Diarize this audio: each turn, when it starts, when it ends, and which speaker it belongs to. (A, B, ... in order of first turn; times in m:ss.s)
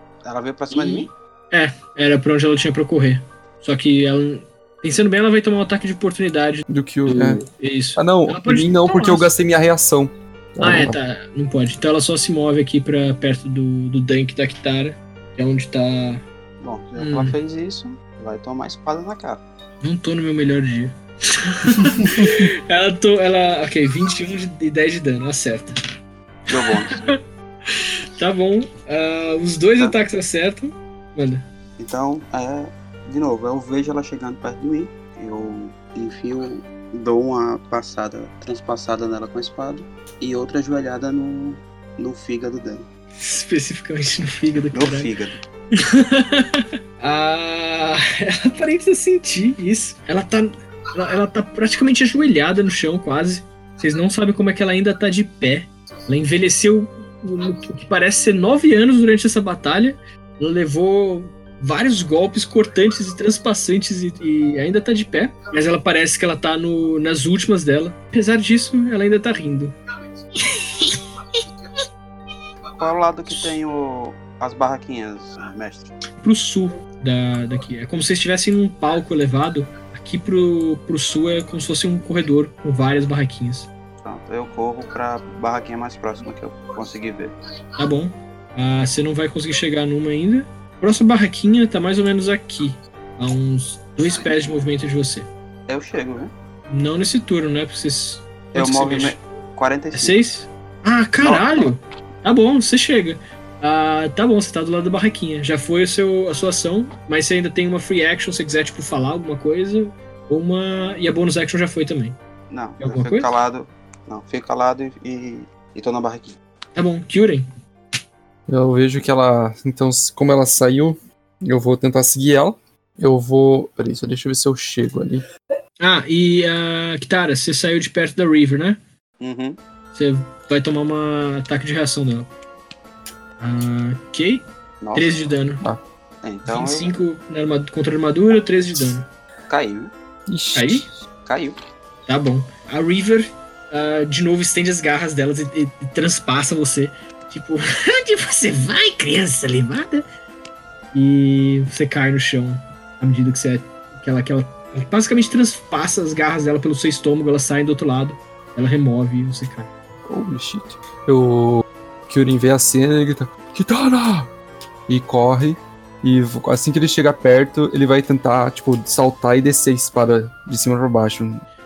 0:00.2-0:01.1 A
0:00.7-0:09.3 B
0:06.7-0:07.4 C
0:08.0-0:11.0 C
0:10.6-0:16.2 B
0:16.6-0:19.4 A
0:17.0-0:17.4 B
0:19.8-0:25.7 B
0:22.2-0:22.4 C
0:26.5-0:27.1 A
0:26.6-0:27.2 B
0:27.7-0:31.5 B
0:31.8-0:42.9 A
0:43.2-0:45.1 B
0:44.7-0:45.4 A
0:45.8-1:09.7 B
1:10.4-1:11.4 B
1:12.8-1:15.9 A
1:16.2-1:23.7 B
1:24.0-1:27.3 A
1:27.8-1:35.3 B
1:35.7-1:36.3 A
1:36.7-1:39.2 B
1:38.5-1:40.2 A
1:39.9-1:52.2 B
1:41.2-1:41.7 A
1:52.5-1:56.4 A
1:52.8-1:53.3 B
1:56.7-1:57.4 B
1:58.5-2:05.2 C
2:05.8-2:08.8 B
2:09.2-2:09.6 A
2:09.9-2:12.3 B
2:13.4-2:15.6 B
2:14.8-2:15.2 A
2:16.2-2:17.0 A
2:16.5-2:19.0 B
2:19.5-2:19.9 A
2:20.3-2:20.9 C
2:20.5-2:20.9 B
2:21.2-2:21.6 A
2:22.1-2:30.0 B
2:30.9-2:39.7 B
2:40.0-2:44.3 C
2:44.9-2:51.4 C